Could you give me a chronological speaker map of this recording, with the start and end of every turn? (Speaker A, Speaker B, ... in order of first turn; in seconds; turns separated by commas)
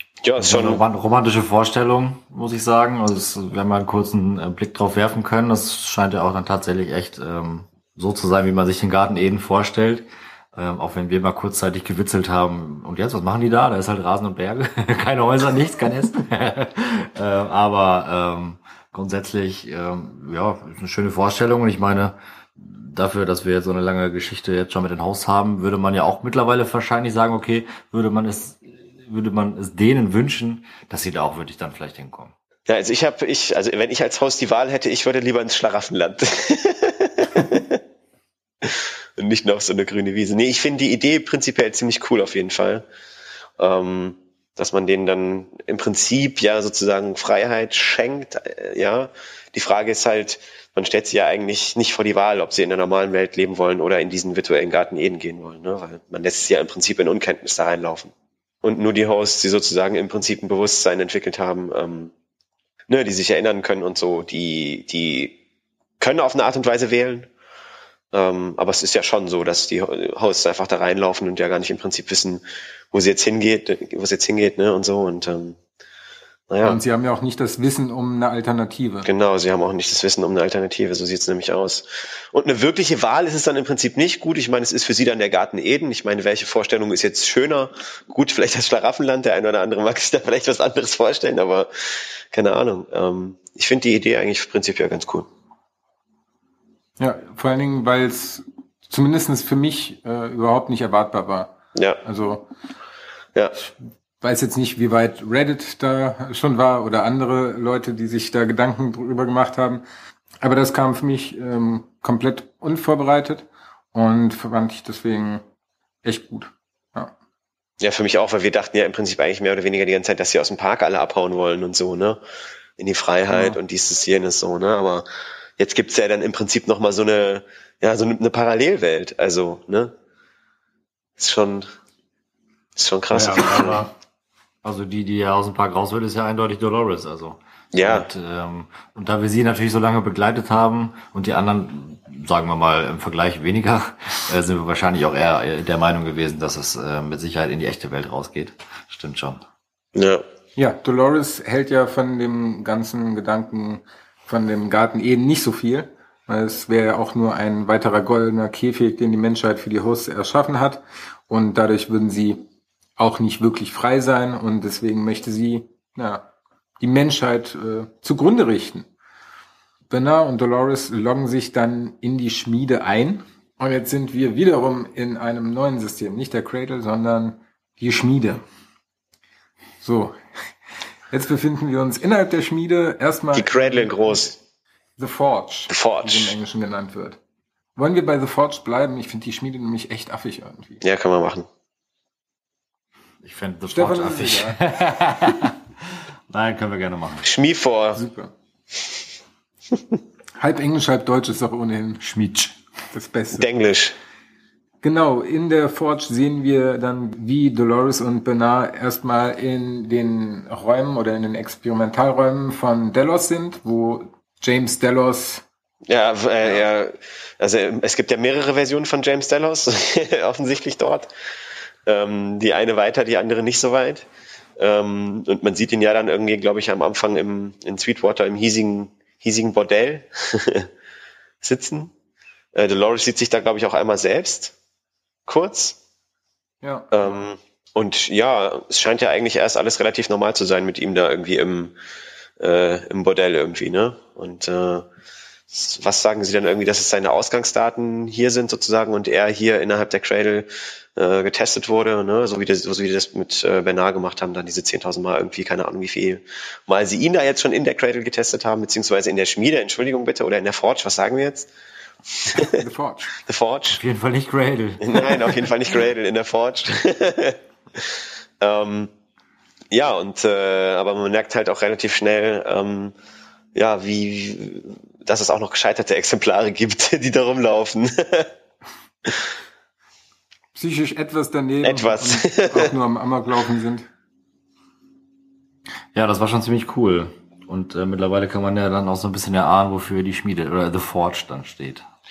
Speaker A: 0.2-0.8, Speaker B: 0.4-32.3, Speaker A: 32.7-37.8, Speaker A: 38.6-42.8, Speaker A: 43.6-58.1, Speaker A: 58.6-62.1, Speaker A: 62.9-65.4, Speaker A: 66.0-67.3, Speaker A: 68.1-75.6, Speaker A: 76.5-76.8, Speaker C: 76.6-79.1, Speaker A: 79.0-95.3, Speaker C: 97.0-102.5, Speaker C: 104.2-109.8, Speaker C: 110.4-115.4, Speaker C: 116.0-117.1, Speaker A: 117.8-122.2, Speaker A: 122.8-125.0, Speaker C: 123.3-123.6, Speaker A: 125.6-129.9, Speaker A: 131.2-131.7, Speaker A: 132.8-133.8, Speaker B: 133.1-133.9, Speaker B: 134.6-149.4, Speaker A: 137.7-138.1, Speaker A: 149.9-150.2, Speaker C: 150.6-162.4, Speaker C: 163.0-166.2, Speaker C: 166.8-168.9, Speaker C: 169.9-178.4, Speaker C: 179.8-180.2, Speaker C: 181.1-184.3, Speaker A: 183.3-184.3, Speaker C: 185.0-187.2, Speaker A: 185.7-186.3, Speaker C: 187.8-190.8, Speaker A: 190.8-191.5, Speaker B: 193.2-197.3, Speaker C: 193.7-194.6, Speaker A: 197.2-198.0, Speaker C: 197.9-198.3, Speaker C: 200.4-202.0, Speaker B: 202.0-202.6, Speaker C: 202.9-203.5, Speaker A: 203.3-203.9, Speaker C: 204.8-215.4, Speaker A: 215.9-221.1, Speaker A: 221.8-224.1, Speaker A: 224.6-230.7, Speaker A: 231.4-231.9, Speaker A: 232.5-234.5, Speaker A: 235.3-235.8, Speaker C: 236.6-237.2, Speaker A: 236.9-241.7, Speaker A: 242.4-244.8, Speaker A: 245.5-261.5, Speaker A: 262.1-262.6, Speaker C: 262.3-263.1, Speaker A: 263.2-263.8, Speaker B: 263.7-265.5, Speaker A: 264.8-268.9, Speaker A: 269.7-272.9, Speaker A: 273.5-278.3, Speaker C: 280.5-283.9, Speaker A: 281.6-282.7, Speaker B: 285.9-291.9